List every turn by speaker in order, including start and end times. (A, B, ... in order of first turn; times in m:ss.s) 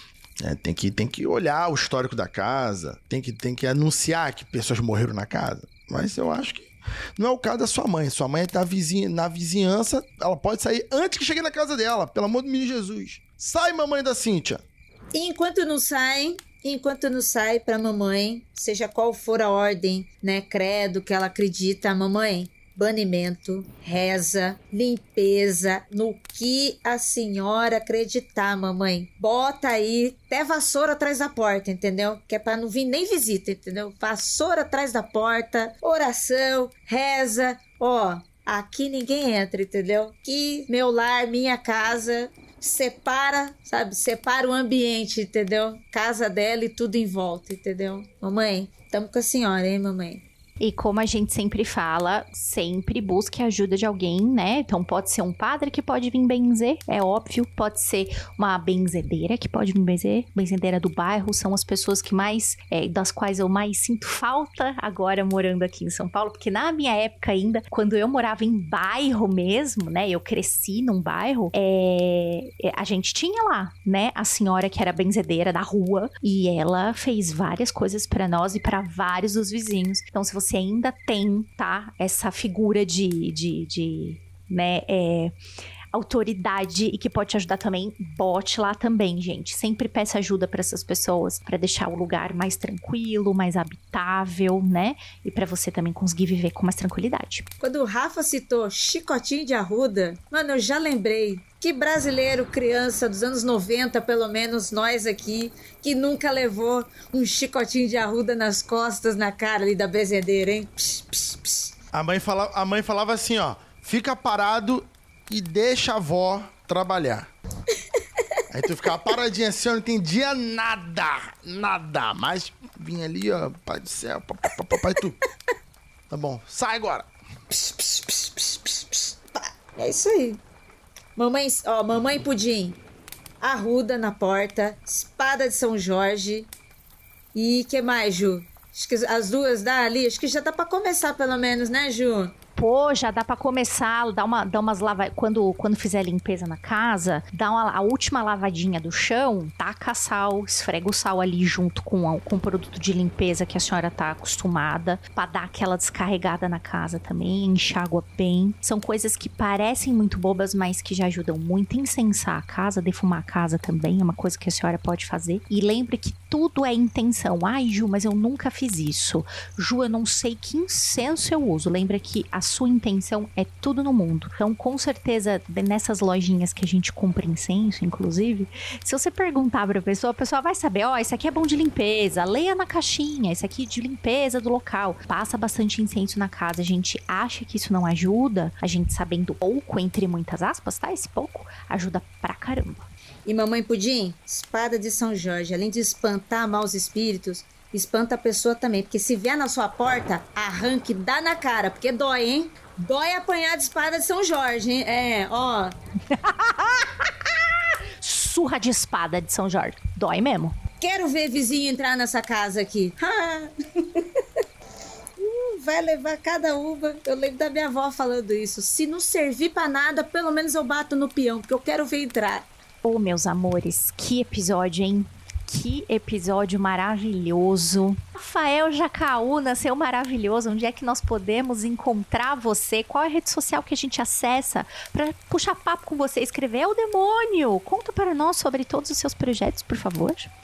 0:00.4-0:14.6 A
0:15.1-0:50.2 B
0:50.6-1:25.4 C
1:25.9-1:37.4 C
1:37.6-1:51.7 B
1:51.9-1:57.3 A
1:58.5-2:05.2 A
2:06.1-2:07.1 A
2:07.5-2:10.4 B
2:11.2-2:12.8 B
2:13.4-2:16.5 B
2:17.3-2:22.3 B
2:22.6-3:12.8 C
3:13.3-3:25.7 B
3:26.1-3:27.3 C
3:28.0-3:30.6 C
3:30.8-3:34.0 B
3:35.2-3:42.5 B
3:42.8-4:00.3 C